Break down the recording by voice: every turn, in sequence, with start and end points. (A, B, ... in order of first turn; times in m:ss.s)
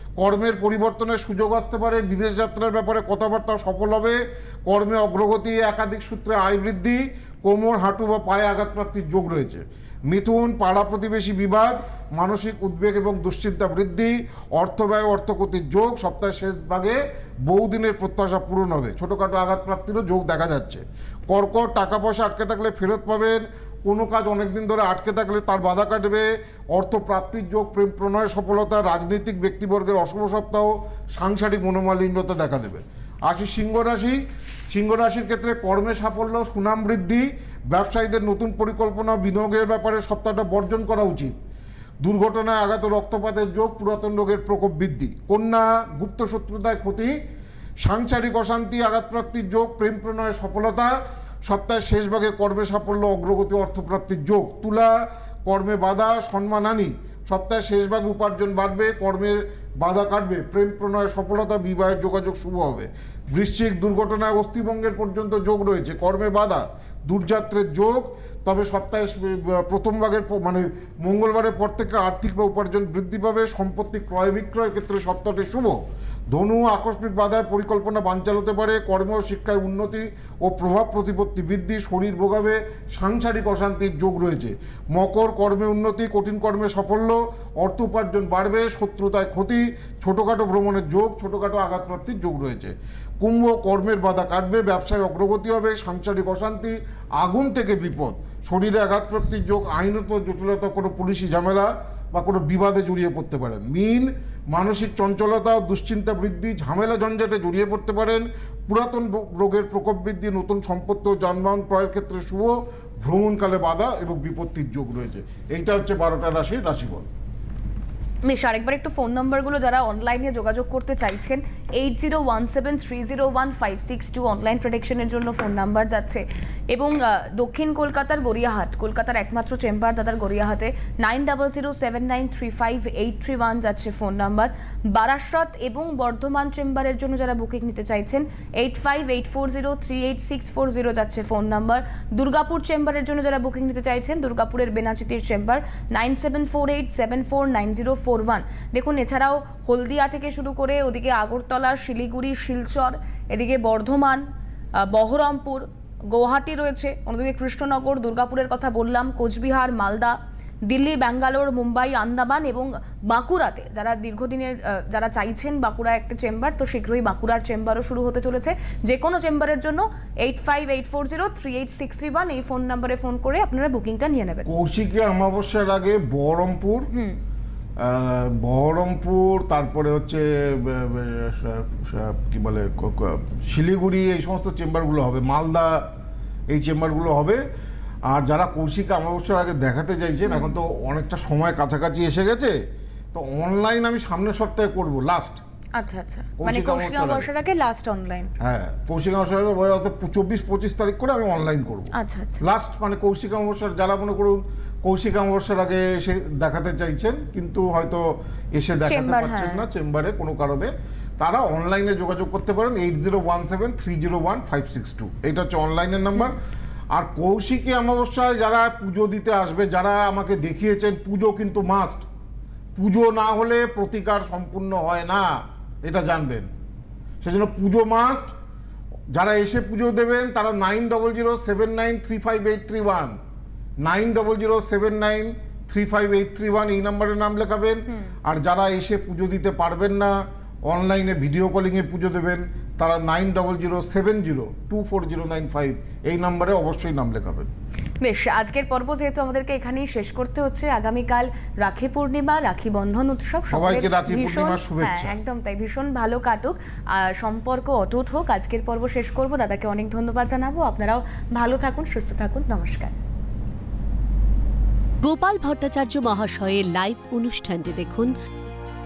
0:00.2-0:34.2 A
0:34.7-0:41.4 A
0:42.0-0:47.2 A
0:47.8-1:15.8 A
1:16.3-1:57.1 A
1:58.2-2:34.2 B
2:34.8-2:54.5 B
2:54.5-2:56.9 A
2:56.9-2:57.2 B
2:57.8-3:05.9 A
3:06.5-3:07.4 A
3:08.1-3:12.5 A
3:10.2-3:10.5 B
3:13.1-3:15.4 A
3:15.8-3:18.3 B
3:16.4-3:17.3 A
3:18.4-3:36.4 A
3:21.9-3:22.5 B
3:28.9-3:29.6 B
3:36.9-3:42.0 A
3:42.8-3:46.5 A
3:47.2-3:48.3 A
3:49.1-3:53.2 A
3:53.8-4:07.5 A
4:08.0-4:23.0 B
4:13.5-4:15.2 A
4:25.0-4:28.1 C